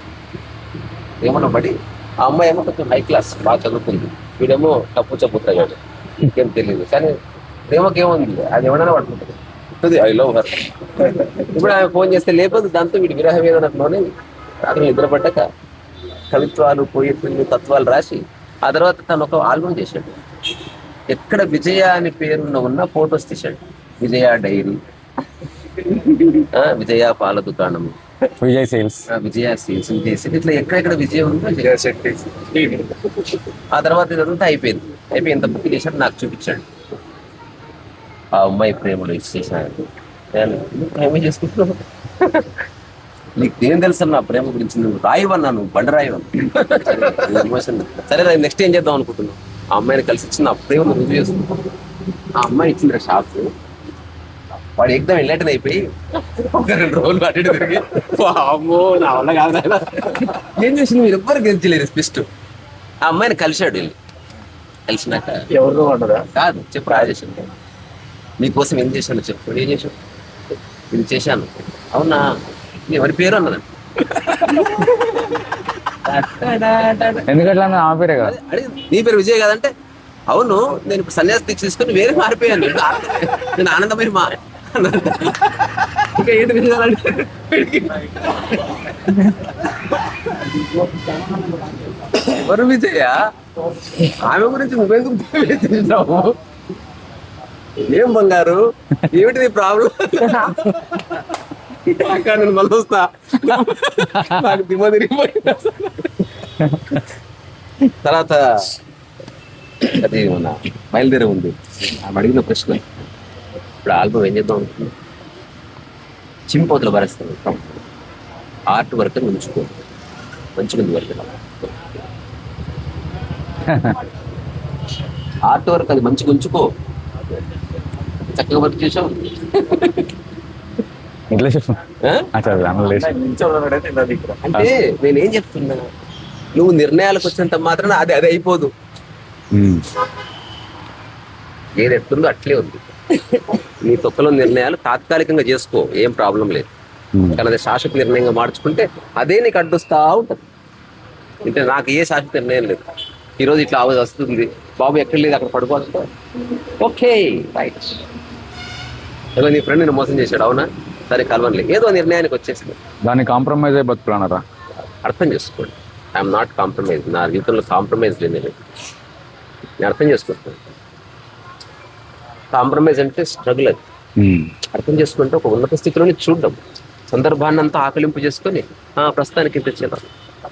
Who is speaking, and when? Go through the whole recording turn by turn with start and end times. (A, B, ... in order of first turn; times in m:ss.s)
0:01.2-0:07.1 A
0:07.7-0:14.0 A
0:14.6-0:15.5 A
0:16.3-0:20.2 A
0:21.1-0:24.8 A
0:26.3-0:28.0 A
0:28.4-0:29.0 B
0:29.1-0:31.8 A
0:31.7-0:33.0 C
0:33.7-0:36.6 A
0:38.3-0:39.8 A
0:40.3-0:42.5 A
0:43.4-0:51.6 A
0:52.4-0:53.5 A
0:54.8-1:02.3 A
1:03.0-1:04.0 A
1:04.9-1:05.4 A
1:05.5-1:06.2 C
1:06.3-1:07.4 A
1:08.4-1:10.0 A
1:10.9-1:12.3 A
1:12.9-1:13.6 A
1:14.2-1:15.4 A
1:16.0-1:17.3 A
1:17.3-1:18.3 B
1:18.2-1:19.7 A
1:20.3-1:30.0 A
1:32.0-1:33.2 A
1:33.9-1:36.4 A
1:37.8-1:41.2 A
1:41.8-1:46.3 A
1:48.0-1:48.7 A
1:49.8-1:52.8 A
1:53.8-1:54.9 A
1:56.5-1:57.8 A
1:58.7-1:59.7 A
2:00.6-2:01.7 A
2:03.7-2:04.0 B
2:05.5-2:06.7 A
2:08.3-2:10.1 A
2:11.3-2:11.8 B
2:12.0-2:12.3 A
2:12.3-2:13.1 B
2:12.4-2:14.4 C
2:14.4-2:15.8 A
2:16.6-2:18.7 A
2:19.5-2:19.8 B
2:21.8-2:22.8 A
2:23.4-2:26.7 A
2:27.1-2:27.4 B
2:27.3-2:30.4 A
2:31.4-2:32.8 A
2:33.4-2:36.0 A
2:36.7-2:38.0 A
2:39.4-2:42.8 A
2:43.1-2:44.4 B
2:45.0-2:48.6 A
2:49.8-2:50.6 A
2:52.5-2:53.8 A
2:54.2-2:54.5 B
2:54.7-2:56.6 A
2:57.1-3:00.1 A